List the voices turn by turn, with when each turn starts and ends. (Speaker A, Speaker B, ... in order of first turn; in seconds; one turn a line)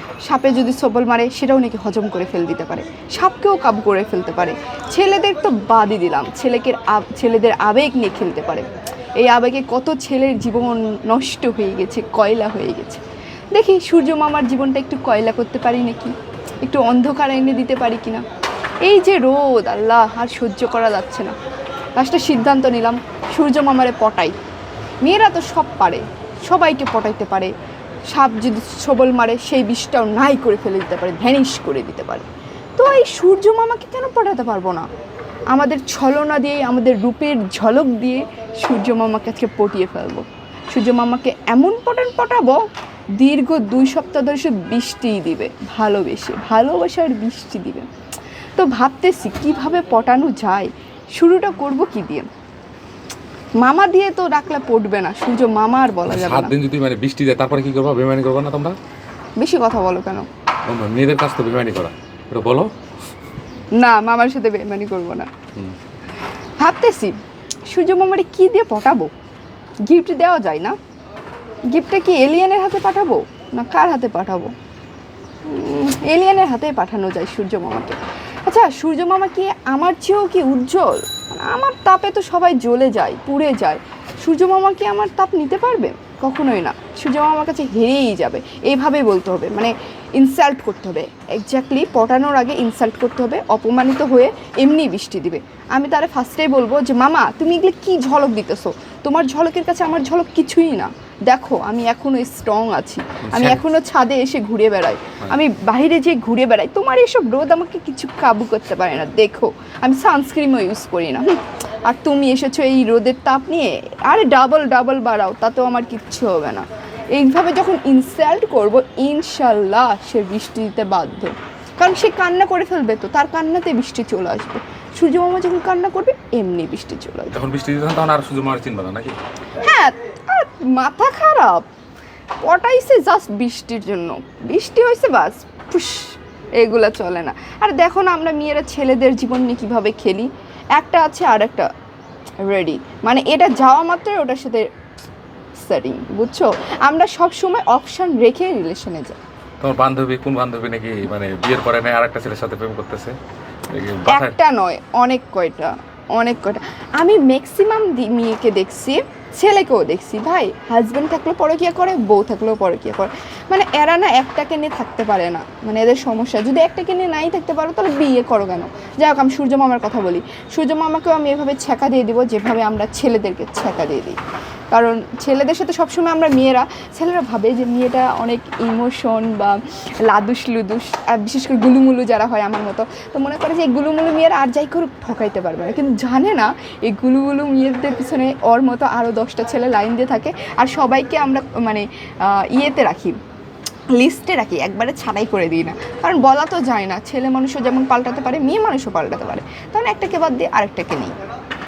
Speaker A: 0.2-18.2
Speaker A: 18.8-21.3
Speaker A: 22.0-24.3
Speaker A: 25.0-27.5
Speaker A: 28.1-34.9
Speaker A: 35.5-42.6
Speaker A: 43.2-47.9
Speaker A: 48.6-52.3
Speaker A: 53.6-56.5
Speaker B: 56.1-58.8
Speaker A: 59.4-60.2
Speaker B: 60.7-62.7
Speaker A: 63.8-65.3
Speaker A: 66.6-67.2
Speaker A: 67.7-69.1
Speaker A: 69.8-70.8
Speaker A: 71.7-74.5
Speaker A: 75.4-127.3
Speaker B: 103.3-103.6
Speaker B: 127.3-129.2
Speaker A: 129.6-131.7
Speaker A: 132.4-141.7
Speaker A: 142.4-144.7
Speaker A: 145.6-149.2
Speaker B: 149.6-153.2
Speaker B: 153.7-154.4
Speaker A: 154.1-174.2
Speaker A: 174.7-193.2
Speaker A: 193.9-201.1